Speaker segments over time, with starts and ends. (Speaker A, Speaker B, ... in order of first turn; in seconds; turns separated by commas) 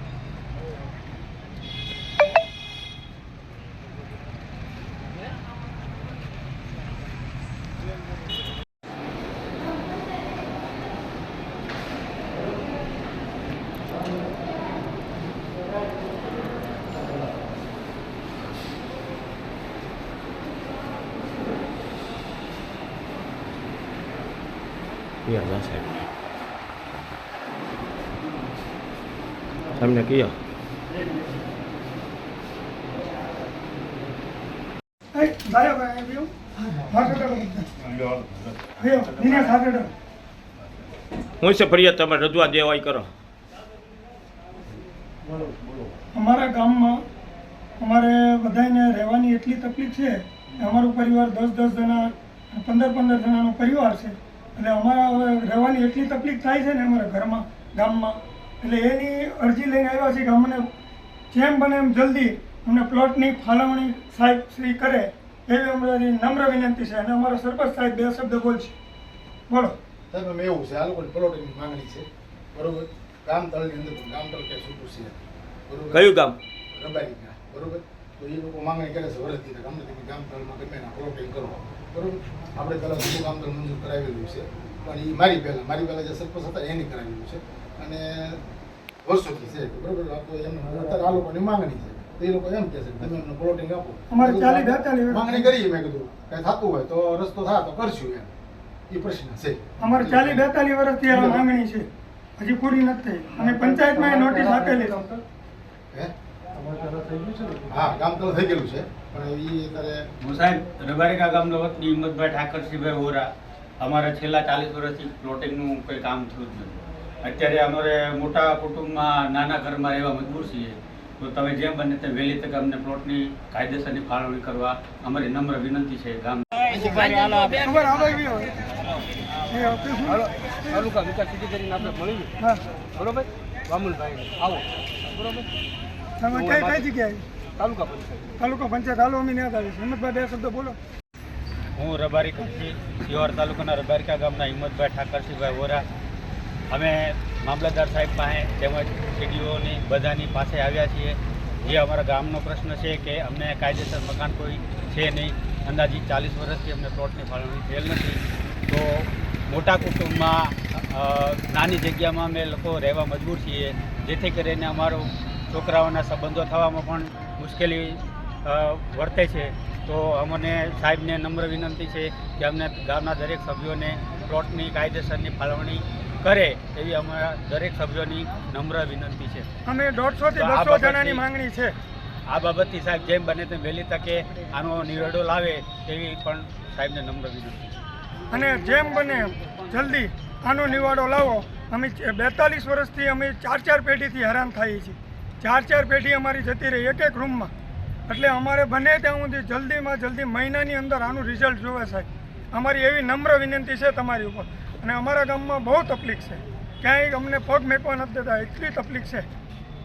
Speaker A: 25.3-25.9, Speaker A: 29.7-30.4, Speaker B: 35.1-37.7, Speaker B: 38.8-39.9, Speaker A: 41.4-43.1, Speaker B: 46.1-47.0, Speaker B: 47.8-60.7, Speaker B: 61.3-68.7, Speaker B: 69.5-69.8, Speaker C: 70.1-76.2, Speaker A: 75.9-76.4, Speaker C: 76.7-88.4, Speaker C: 89.0-98.3, Speaker B: 94.1-95.5, Speaker C: 98.9-100.5, Speaker B: 99.8-101.9, Speaker C: 101.1-101.4, Speaker B: 102.4-105.2, Speaker C: 107.7-110.0, Speaker D: 110.2-113.3, Speaker D: 113.8-126.6, Speaker E: 126.7-127.6, Speaker B: 127.5-128.6, Speaker B: 129.5-130.8, Speaker E: 130.1-132.3, Speaker E: 132.9-135.5, Speaker B: 136.2-137.3, Speaker E: 136.3-136.8, Speaker E: 137.6-138.3, Speaker B: 138.4-140.8, Speaker D: 141.8-145.9, Speaker D: 146.7-179.5, Speaker B: 179.7-181.8, Speaker D: 180.3-181.2, Speaker D: 182.3-187.7, Speaker B: 188.3-197.5, Speaker B: 198.1-209.3